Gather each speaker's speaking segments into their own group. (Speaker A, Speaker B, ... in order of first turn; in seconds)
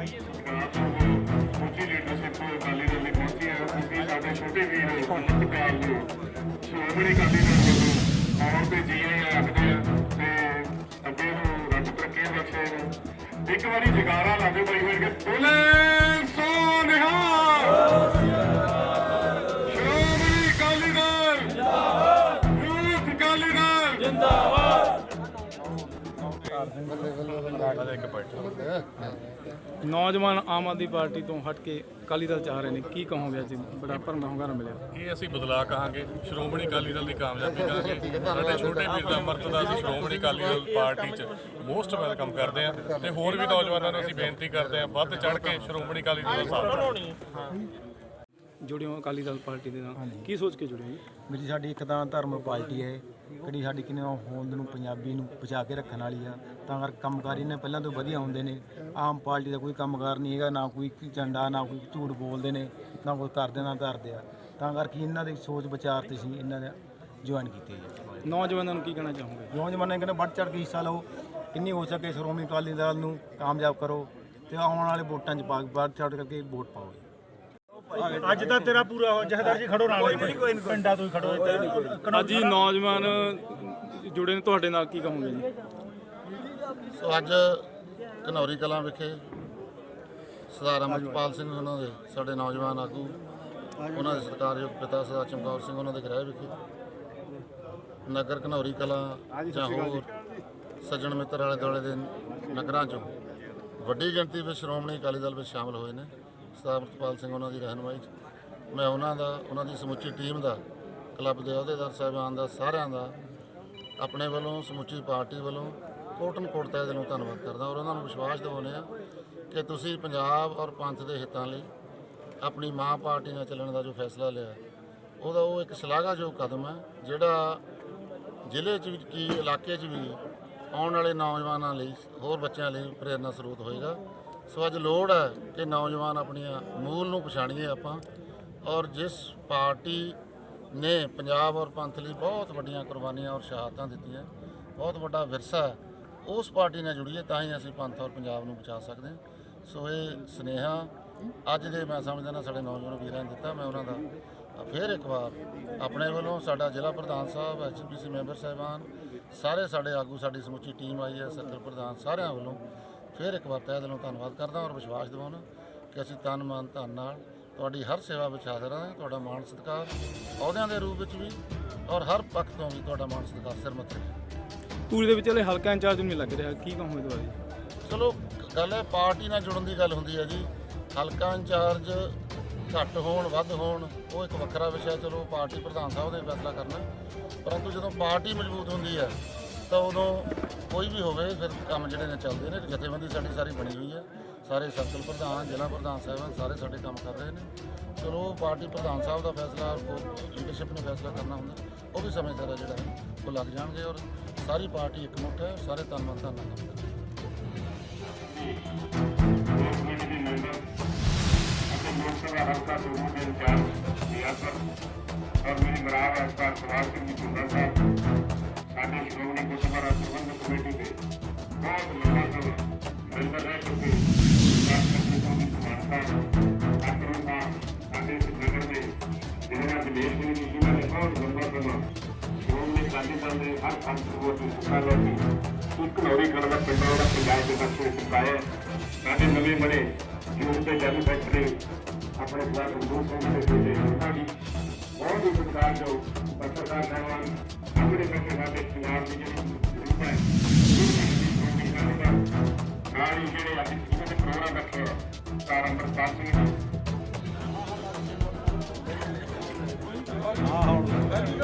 Speaker A: 0.3-6.1, 6.6-12.9, 13.5-18.1, 19.6-21.7, 22.4-24.4, 208.2-208.6, 209.5-210.6, 211.7-214.7, 215.4-217.8, 218.7-221.0, 221.6-226.2, 226.8-228.9, 229.5-231.8, 232.4-235.2, 235.8-238.4, 239.0-239.8, 240.4-241.5, 242.2-244.3, 245.0-252.2, 252.9-256.6
Speaker B: 27.0-28.7, 34.9-47.1
Speaker C: 29.8-34.9, 48.6-51.0, 68.2-69.5, 81.4-85.5, 174.9-177.4
Speaker D: 50.0-50.3, 51.3-68.2, 69.5-77.0
Speaker E: 78.1-82.3
Speaker F: 86.9-87.7, 88.2-89.2, 90.5-93.2, 93.8-96.6, 98.1-100.1, 100.8-103.1, 103.8-108.1, 108.7-110.6, 111.2-113.1, 114.0-118.9, 119.5-121.7, 122.4-124.6, 125.2-127.6, 128.5-130.2, 130.7-138.0, 138.7-140.2, 140.7-150.9, 151.5-154.0, 154.6-162.6, 163.1-174.1, 177.9-182.2, 182.7-186.9, 187.4-206.9